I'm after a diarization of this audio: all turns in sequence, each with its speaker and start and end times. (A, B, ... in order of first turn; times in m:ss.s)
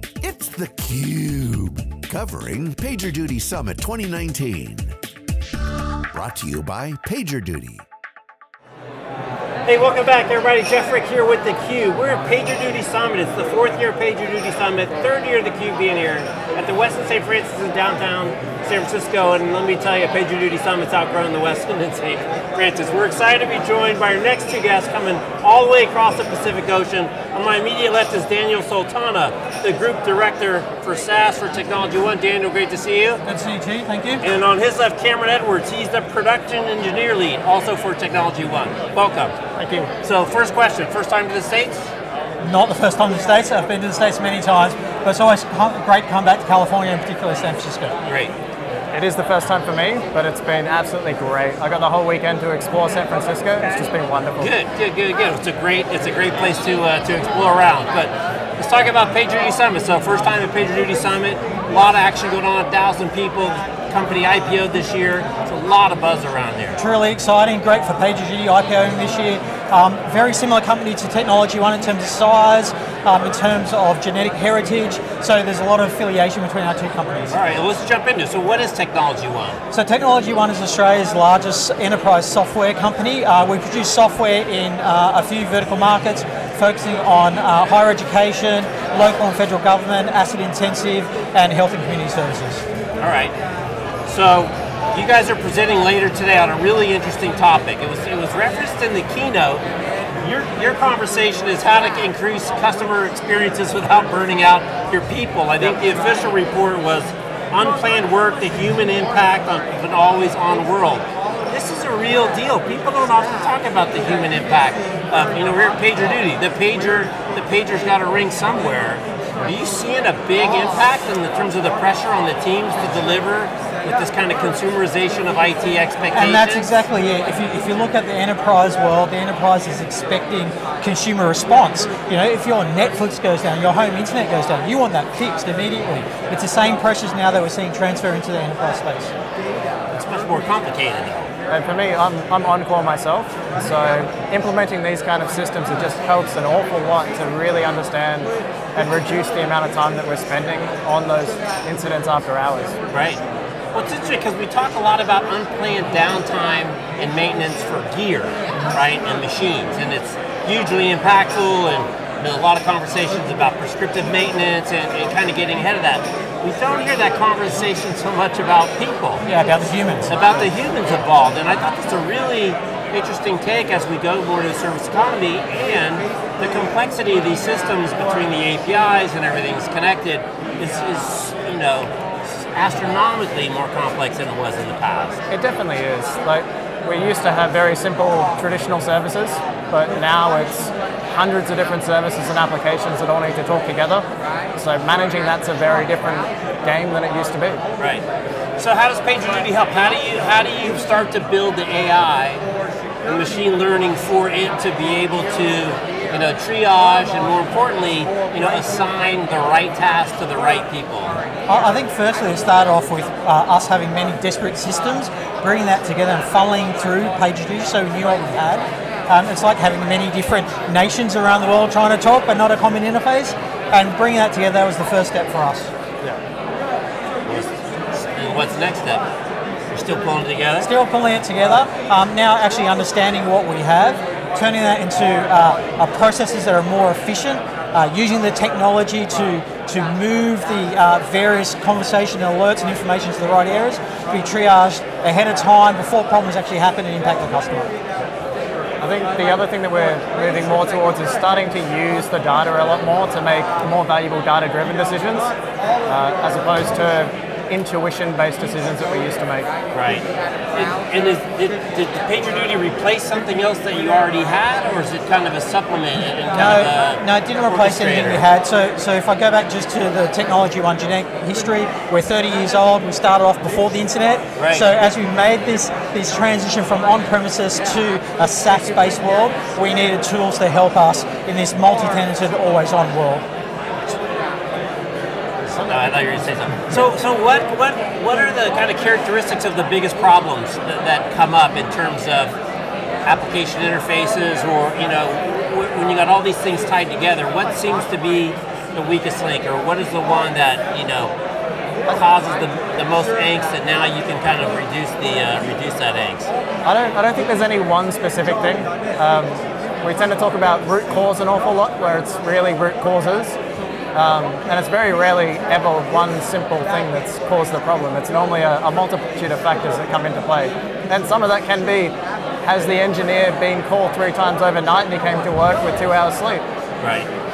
0:00.2-0:05.0 A
0:06.1-0:07.8 A
0:09.6-0:33.2 B
0:33.2-0:34.2 C
0:34.2-0:39.3 B
0:39.5-0:39.9 D
0:40.0-0:41.9 B
0:42.4-0:47.9 C
0:48.0-0:48.3 B
0:48.9-0:54.5 D
0:54.4-1:06.8 B
1:06.7-1:17.4 C
1:17.3-1:19.6 B
1:19.7-1:32.6 C
1:33.0-1:33.3 B
1:34.0-1:39.6 B
1:40.2-2:06.8 B
2:06.1-2:19.1 C
2:19.9-2:21.3 B
2:21.5-2:32.8 D
2:32.9-2:33.2 B
2:33.7-2:49.2 B
2:49.2-2:50.4 C
2:50.1-3:05.2 B
3:05.3-3:17.6 D
3:17.8-3:18.0 B
3:18.6-3:22.5 B
3:23.0-3:31.2 B
3:31.5-3:45.7 C
3:47.2-3:49.0 B
3:49.7-3:50.7 B
3:50.6-4:07.7 C
4:08.8-4:15.3 D
4:15.8-4:19.5 D
4:19.7-4:28.2 B
4:26.3-4:43.2 C
4:34.4-4:34.7 B
4:45.4-4:52.4 B
4:53.0-5:01.1 B
5:01.8-5:06.3 B
5:06.6-5:13.4 D
5:13.9-5:26.4 D
5:26.8-5:27.1 B